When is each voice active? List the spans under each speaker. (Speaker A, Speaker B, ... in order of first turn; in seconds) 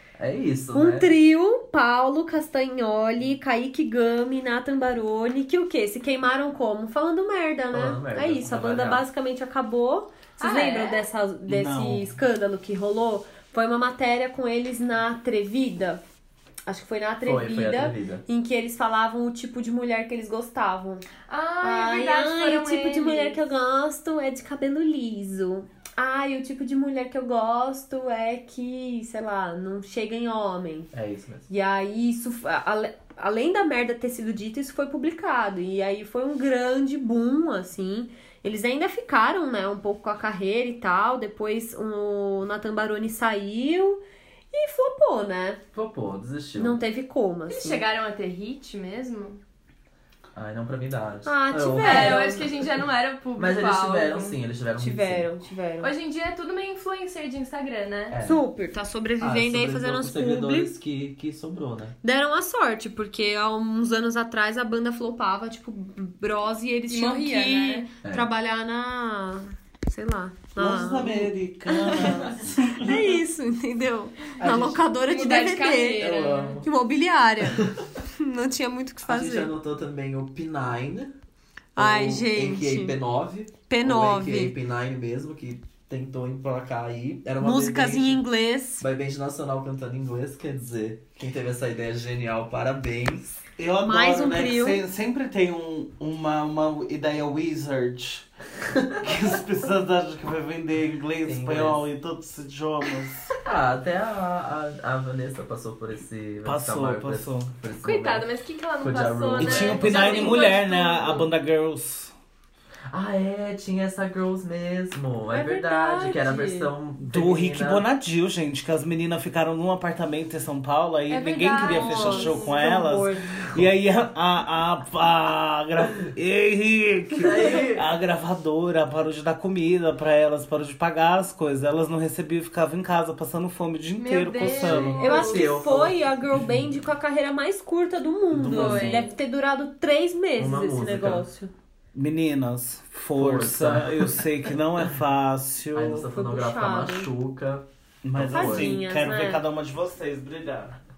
Speaker A: 0.2-1.2, 7.7-9.1, 17.2-18.2, 30.9-31.5, 45.7-46.8, 50.4-52.5, 53.4-55.3, 58.1-58.4, 59.2-62.0, 68.0-68.3, 74.4-74.8, 76.0-76.7, 77.5-77.9, 79.0-81.1, 81.8-88.3, 88.8-93.4, 98.6-99.0, 101.2-101.8, 103.4-108.3, 108.8-110.4, 112.9-117.9, 127.2-127.9, 134.4-136.0, 140.4-141.3, 143.2-144.2, 145.7-148.8
Speaker B: 0.7-16.0, 16.7-21.1, 21.6-30.9, 31.5-44.0, 44.5-45.6, 46.6-47.8, 51.3-52.5, 54.8-55.9, 58.2-60.7, 62.0-79.5, 81.8-83.0, 83.7-84.5, 87.4-88.8, 93.8-94.8, 115.3-116.7, 121.6-123.5, 135.0-141.5, 146.1-147.1, 148.3-149.4
Speaker C: 10.4-11.1, 21.3-23.4, 47.5-49.4, 51.8-54.4, 55.8-58.2, 66.9-67.9, 75.1-76.6, 107.8-111.3, 121.1-122.5, 134.0-135.7, 138.5-139.1
Speaker D: 11.5-12.1, 70.6-73.0, 93.6-98.3, 99.0-103.3, 106.5-107.5, 109.4-112.1, 117.0-135.0, 138.3-139.1, 141.9-146.1, 148.0-150.8